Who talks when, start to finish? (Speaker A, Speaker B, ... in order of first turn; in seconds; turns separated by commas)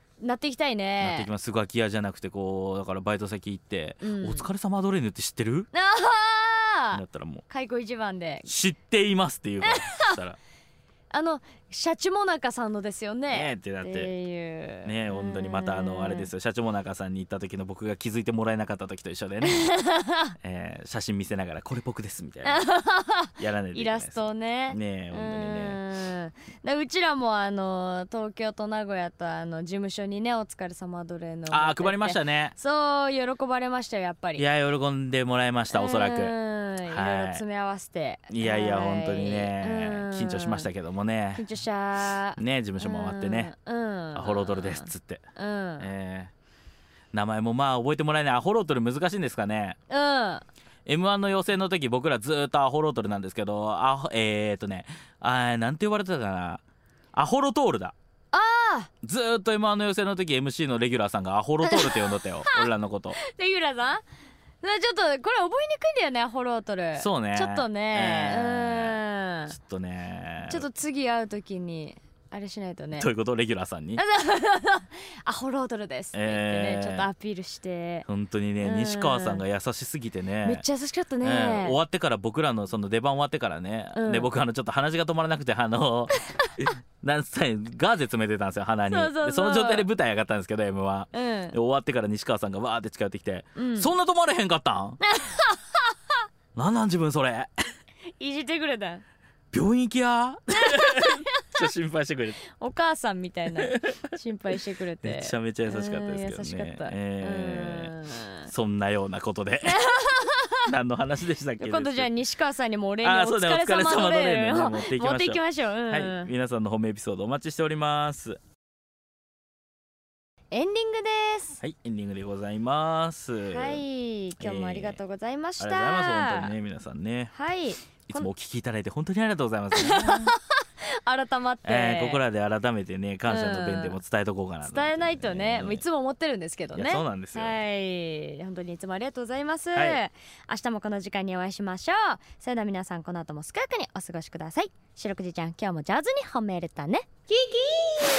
Speaker A: 0.2-1.3, Speaker B: 1.0-5.7, Speaker A: 4.0-4.5, Speaker A: 5.7-8.5, Speaker B: 6.9-7.5, Speaker B: 8.5-10.4, Speaker A: 9.6-10.2, Speaker A: 11.1-16.3, Speaker B: 13.3-14.1, Speaker B: 14.8-19.7, Speaker A: 19.4-20.3, Speaker B: 20.4-22.7, Speaker A: 22.4-34.5, Speaker B: 23.4-25.8, Speaker B: 31.5-32.6, Speaker B: 34.4-37.4, Speaker A: 35.7-40.7, Speaker B: 38.3-41.5, Speaker A: 41.4-45.9, Speaker B: 42.4-43.5, Speaker B: 44.1-45.2, Speaker B: 45.8-46.3, Speaker B: 47.1-49.8, Speaker A: 49.9-50.5, Speaker B: 50.9-56.6, Speaker B: 57.1-57.9, Speaker A: 58.3-58.9, Speaker B: 59.0-63.2, Speaker A: 61.6-64.0, Speaker A: 64.6-69.5, Speaker B: 67.0-70.7, Speaker A: 70.5-73.1, Speaker B: 73.0-74.0, Speaker A: 74.0-78.1, Speaker B: 76.1-77.1, Speaker B: 78.1-80.7, Speaker A: 78.6-79.4, Speaker A: 80.4-81.8, Speaker B: 81.2-95.0, Speaker A: 83.9-84.3, Speaker A: 88.9-89.9, Speaker A: 91.1-91.6, Speaker A: 93.5-93.9, Speaker A: 95.0-95.8, Speaker B: 96.5-97.5, Speaker A: 98.2-99.0, Speaker B: 99.5-102.4, Speaker A: 100.6-101.7, Speaker A: 102.5-108.5, Speaker B: 103.6-104.0, Speaker B: 105.0-107.9, Speaker B: 108.5-109.8, Speaker A: 109.6-110.7, Speaker B: 110.6-112.1, Speaker A: 111.6-116.3, Speaker B: 113.0-118.4, Speaker A: 120.5-121.6, Speaker B: 121.6-123.8, Speaker A: 123.5-126.5, Speaker B: 124.4-125.0, Speaker B: 125.6-127.3, Speaker A: 127.3-128.3, Speaker B: 128.1-130.3, Speaker A: 129.7-132.2, Speaker B: 131.7-135.8, Speaker A: 133.3-134.0, Speaker A: 134.6-148.0, Speaker B: 136.7-137.6, Speaker B: 139.8-140.0